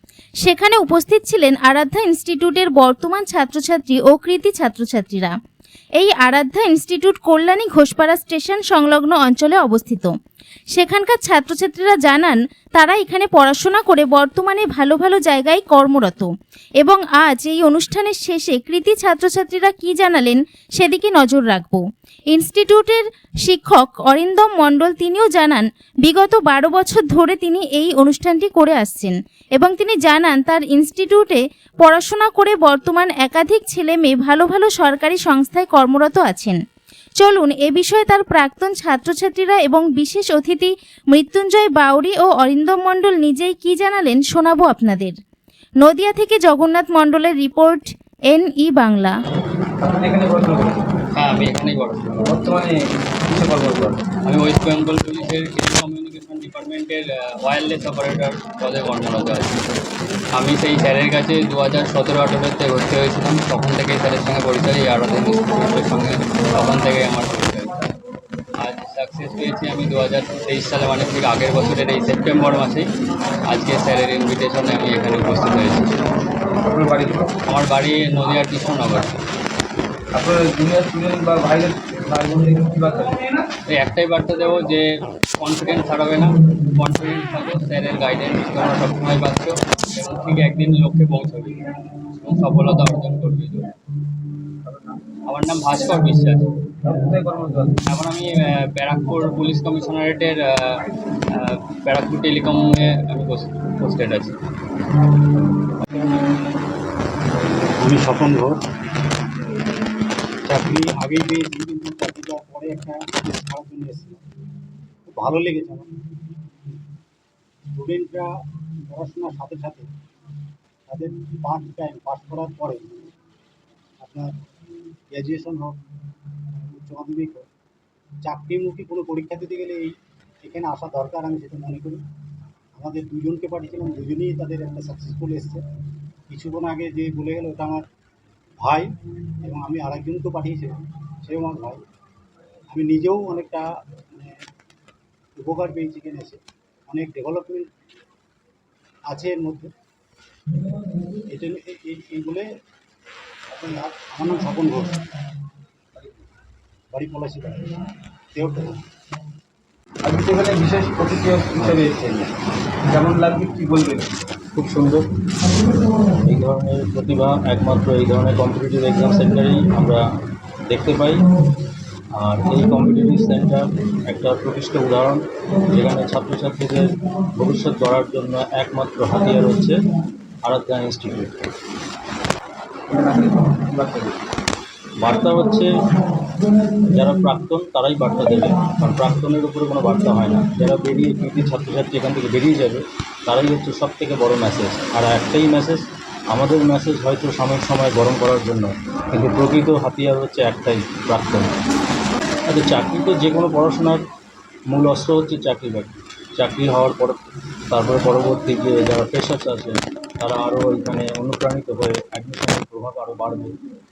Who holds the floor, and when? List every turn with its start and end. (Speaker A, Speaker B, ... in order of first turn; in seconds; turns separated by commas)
Speaker A: 0.4-5.3, Speaker A: 6.0-10.1, Speaker A: 10.7-16.3, Speaker A: 16.8-36.6, Speaker A: 37.2-45.2, Speaker A: 45.8-49.1, Speaker B: 49.8-50.8, Speaker C: 51.1-52.3, Speaker B: 52.2-54.1, Speaker C: 54.2-59.6, Speaker C: 60.3-67.8, Speaker C: 68.6-72.9, Speaker C: 73.5-75.9, Speaker B: 76.7-77.3, Speaker C: 77.5-79.1, Speaker B: 80.1-83.3, Speaker C: 83.7-91.6, Speaker C: 92.2-93.7, Speaker B: 94.7-95.0, Speaker C: 95.3-96.5, Speaker B: 96.8-97.7, Speaker C: 97.9-104.3, Speaker D: 107.8-108.6, Speaker D: 110.5-114.2, Speaker D: 115.1-115.9, Speaker D: 117.8-118.3, Speaker D: 118.9-119.9, Speaker D: 120.9-123.1, Speaker D: 124.0-124.3, Speaker D: 125.1-125.8, Speaker D: 126.6-127.5, Speaker D: 128.2-132.0, Speaker D: 132.8-135.6, Speaker D: 136.3-137.8, Speaker D: 138.6-138.9, Speaker D: 139.4-141.8, Speaker D: 142.7-144.4, Speaker D: 145.4-147.7, Speaker D: 149.1-149.7, Speaker D: 151.3-152.5, Speaker D: 153.5-155.0, Speaker D: 156.9-157.8, Speaker D: 158.3-158.7, Speaker B: 160.0-162.3, Speaker B: 162.9-164.1, Speaker E: 164.5-165.1, Speaker E: 166.2-170.0, Speaker E: 170.7-171.3, Speaker E: 172.2-179.8, Speaker E: 180.4-181.3, Speaker B: 182.9-184.2, Speaker E: 185.0-185.7, Speaker E: 186.9-201.5, Speaker E: 202.5-204.1, Speaker E: 204.7-207.2, Speaker E: 207.7-213.6